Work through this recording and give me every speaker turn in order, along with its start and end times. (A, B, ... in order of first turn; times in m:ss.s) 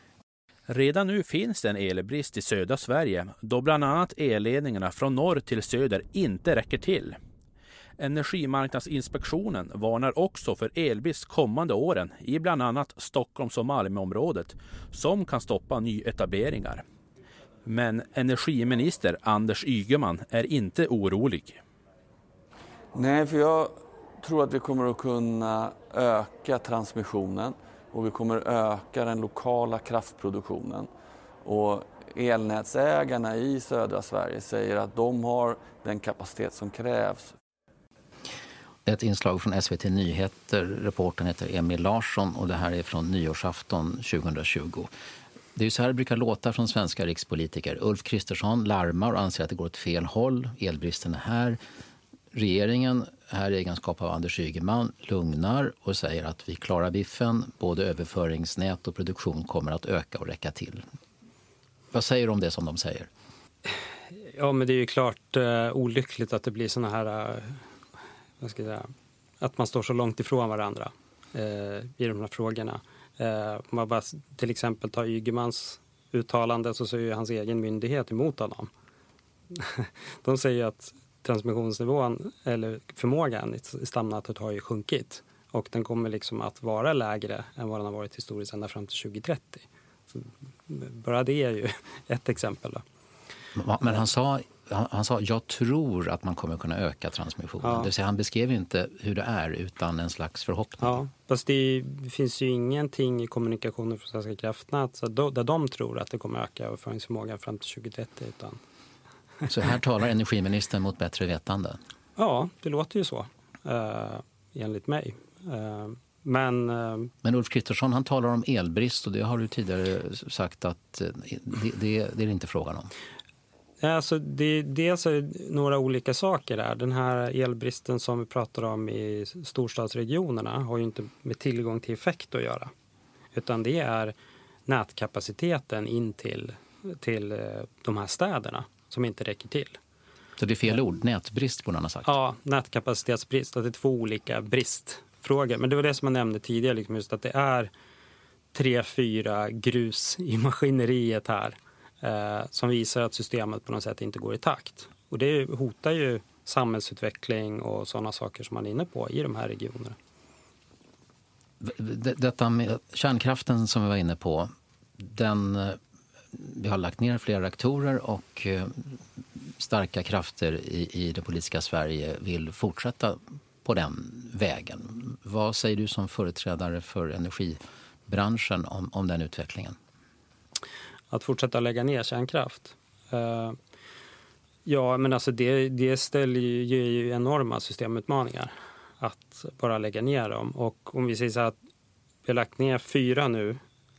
0:00.7-0:07.2 A
0:08.0-0:16.8 A
0:17.6-0:21.6 A
0:22.9-0:30.9 B
0:31.4-0:37.3 B
0:38.8-0:44.9 C
0:45.5-0:51.6 C
0:52.3-1:00.8 C
1:01.9-1:03.1 C
1:04.1-1:07.6 D
1:08.4-1:18.7 D
1:19.5-1:32.8 D
1:33.6-1:41.0 C
1:37.6-1:37.9 D
1:40.8-1:48.6 D
1:49.5-1:51.8 C
1:52.2-1:57.1 D
1:57.2-2:02.9 C
2:03.8-2:12.7 D
2:13.3-2:14.1 D
2:14.7-2:19.8 D
2:20.4-2:22.2 C
2:22.0-2:27.7 D
2:28.5-2:40.0 D
2:41.6-2:45.8 C
2:46.3-2:59.8 C
3:01.1-3:03.6 D
3:04.6-3:11.6 D
3:12.2-3:13.6 D